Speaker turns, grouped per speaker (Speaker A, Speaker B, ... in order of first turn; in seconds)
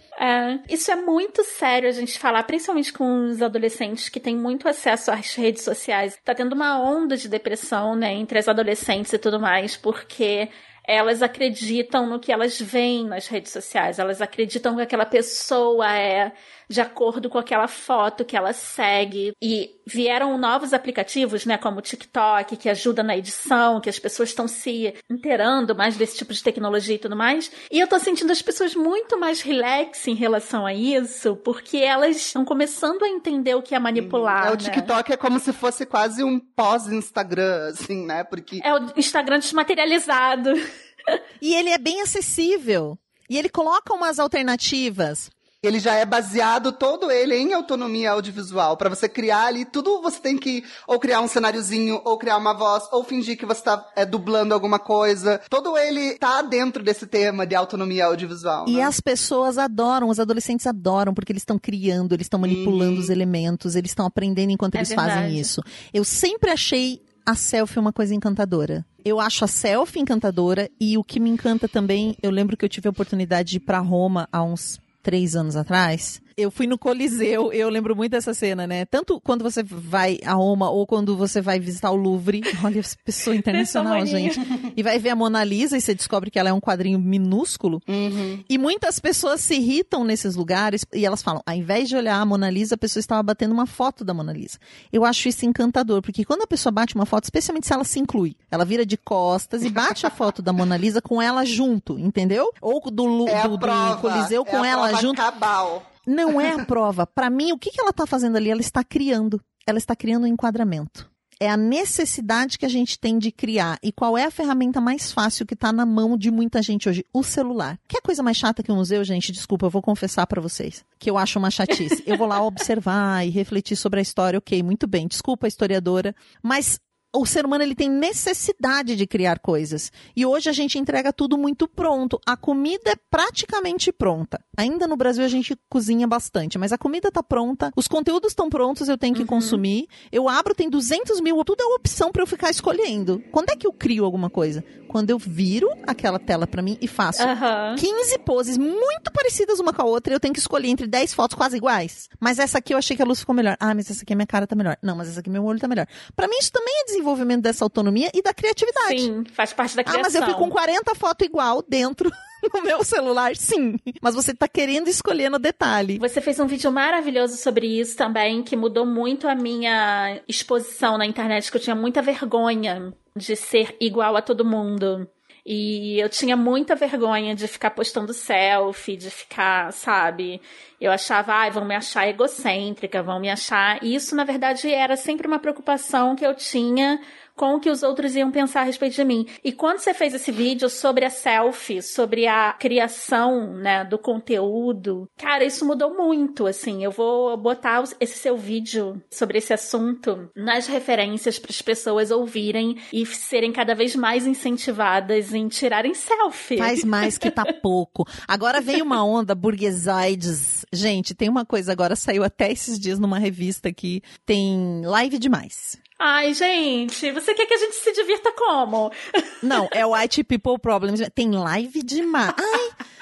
Speaker A: 0.2-34.9, 38.6-41.2, 64.8-65.5, 83.5-84.5, 139.2-139.6, 147.2-147.8, 158.7-160.5, 166.0-207.4, 216.0-219.7
Speaker B: 34.0-38.6, 45.6-58.9, 62.4-63.1, 87.9-88.4, 103.3-105.9
Speaker C: 41.4-45.3, 58.7-87.8, 88.5-105.2, 106.1-159.1, 159.9-166.0, 206.6-215.8, 219.4-222.8